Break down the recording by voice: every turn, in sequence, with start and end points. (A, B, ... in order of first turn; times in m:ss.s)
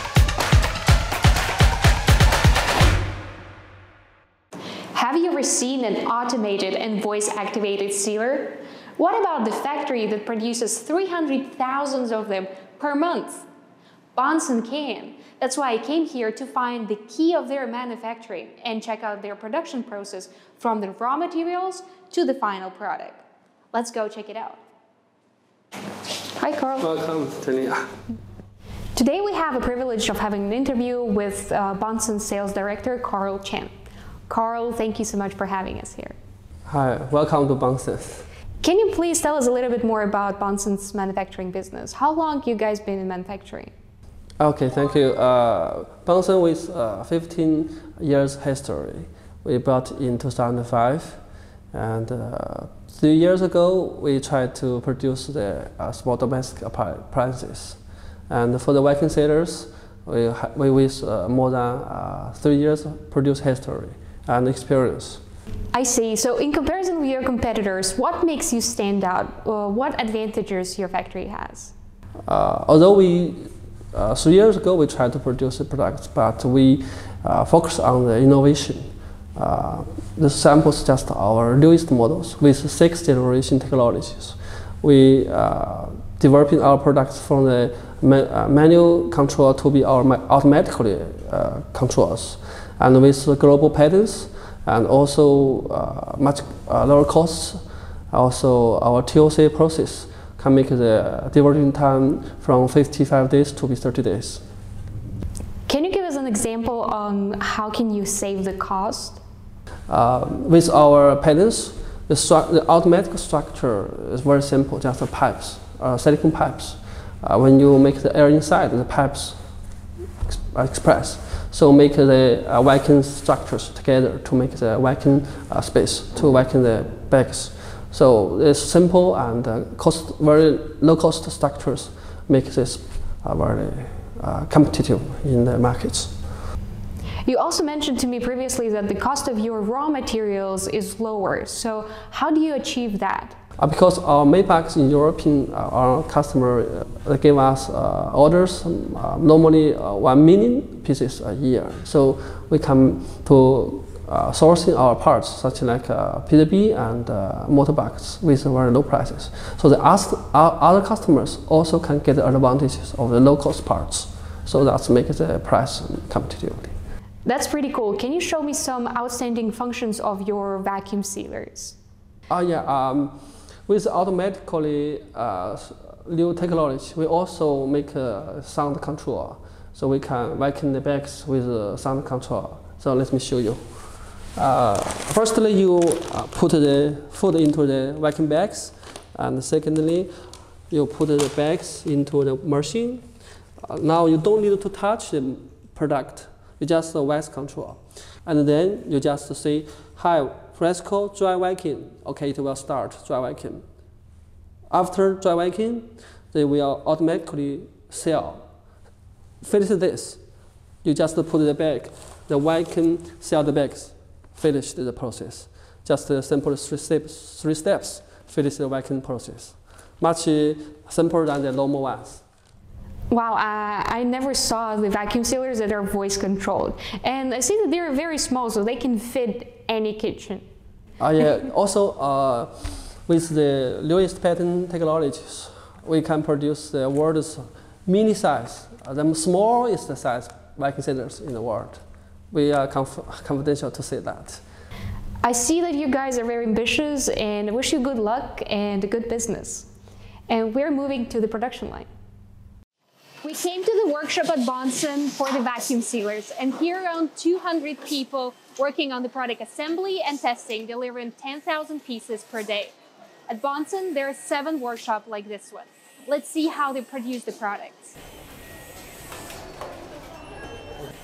0:04.9-0:13.4 A
0:14.1-0:24.6 A
0:26.4-0:26.9 A
0:26.8-0:27.9 B
0:28.9-0:33.7 A
0:34.3-0:36.2 A
0:36.7-0:38.3 B
0:38.6-0:43.7 A
0:44.4-0:51.2 B
0:51.7-1:05.2 B
1:05.7-1:11.7 A
1:12.2-1:44.4 B
1:45.7-1:49.2 A
1:49.9-1:59.4 B
2:00.2-2:16.2 B
2:17.2-2:23.4 A
2:23.6-2:46.7 B
2:47.2-2:51.8 A
2:52.3-3:10.1 B
3:10.7-3:13.1 B
3:13.6-3:23.6 B
3:24.7-3:28.5 B
3:29.4-3:30.2 B
3:30.8-3:42.2 B
3:43.1-3:50.4 A
3:51.0-4:04.4 B
4:05.2-4:09.7 A
4:10.3-4:11.9 A
4:13.2-4:22.7 A
4:23.3-4:28.0 A